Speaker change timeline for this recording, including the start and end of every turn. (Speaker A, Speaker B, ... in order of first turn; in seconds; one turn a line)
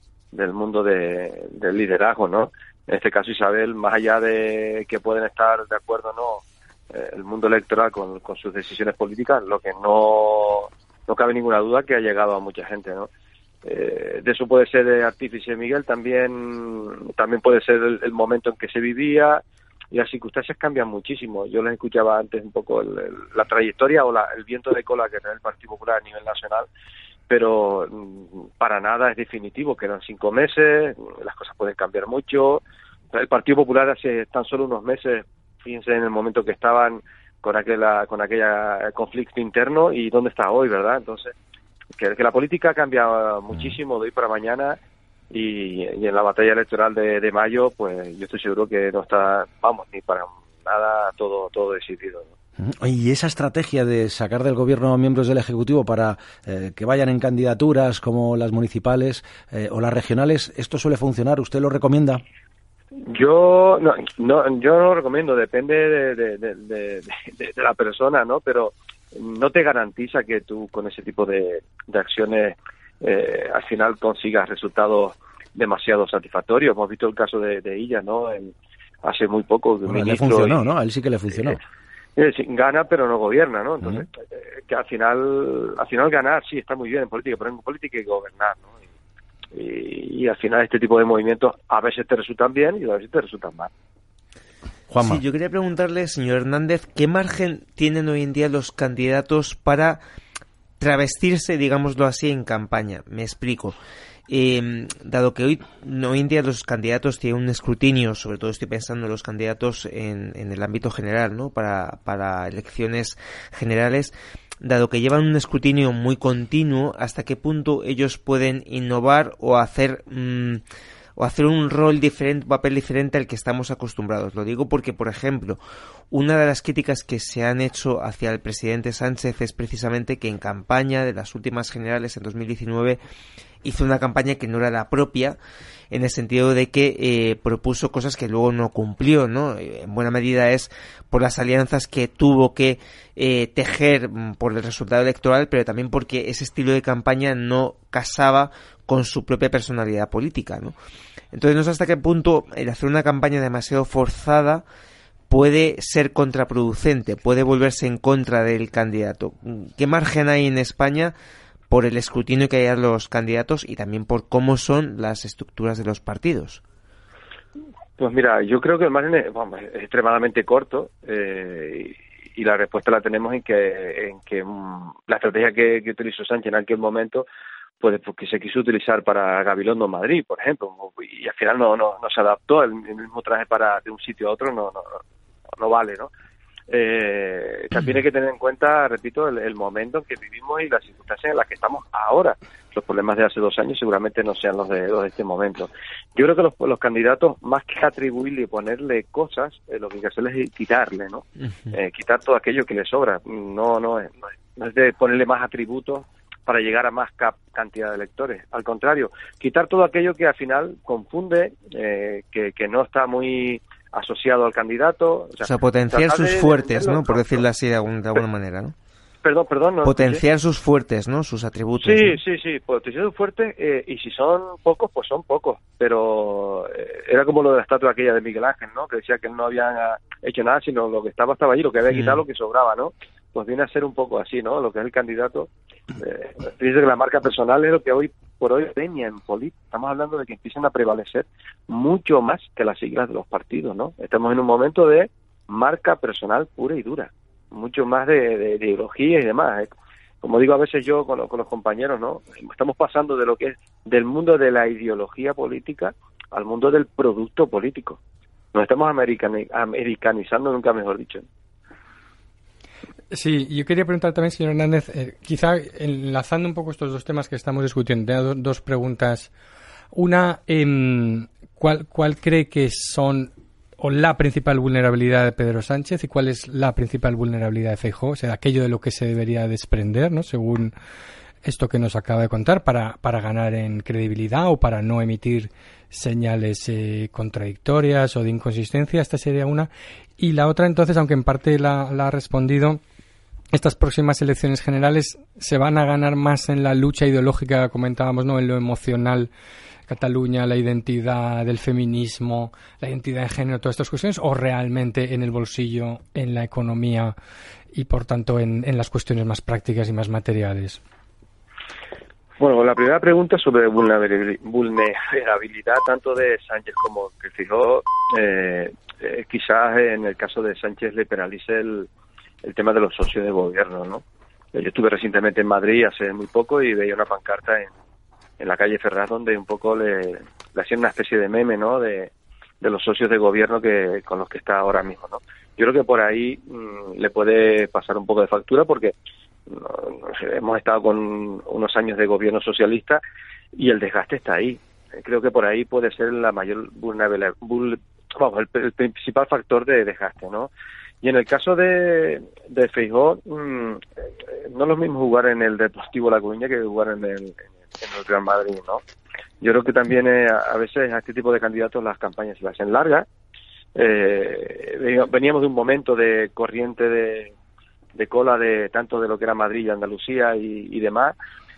Speaker A: 0.3-13.1
Speaker A: 13.6-19.4
Speaker A: 19.9-26.7
Speaker A: 27.3-41.3
Speaker A: 42.0-44.8
Speaker A: 45.3-52.3
Speaker B: 52.6-62.2
Speaker A: 63.1-78.5
Speaker A: 79.0-80.6
Speaker B: 79.8-81.6
Speaker A: 82.2-88.7
Speaker A: 89.5-93.7
Speaker B: 94.9-95.2
Speaker C: 95.0-100.0
Speaker C: 100.8-103.7
Speaker C: 104.3-120.6
Speaker C: 121.2-125.6
Speaker C: 126.1-133.0
Speaker C: 133.6-135.4
Speaker C: 135.9-150.7
Speaker C: 151.3-154.6
Speaker C: 155.3-161.1
Speaker C: 161.7-166.6
Speaker A: 168.0-177.2
Speaker A: 177.8-185.0
Speaker A: 185.6-186.1
Speaker A: 186.7-217.4
Speaker C: 215.4-218.7
Speaker A: 219.2-220.2
Speaker C: 219.8-222.2
Speaker A: 221.8-258.0
Speaker C: 231.9-232.2
Speaker A: 258.5-261.2
Speaker D: 263.1-269.3
Speaker D: 269.9-280.7
Speaker D: 281.4-292.8
Speaker D: 293.5-299.3
Speaker D: 299.9-307.1
Speaker D: 307.7-310.8
Speaker A: 312.4-321.9
Speaker A: 322.4-324.0
Speaker A: 324.5-327.7
Speaker A: 328.4-338.9
Speaker A: 339.5-343.0
Speaker A: 343.5-350.5
Speaker A: 351.0-353.8
Speaker A: 354.3-358.8
Speaker A: 359.4-363.1
Speaker A: 363.7-367.3
Speaker A: 368.0-371.1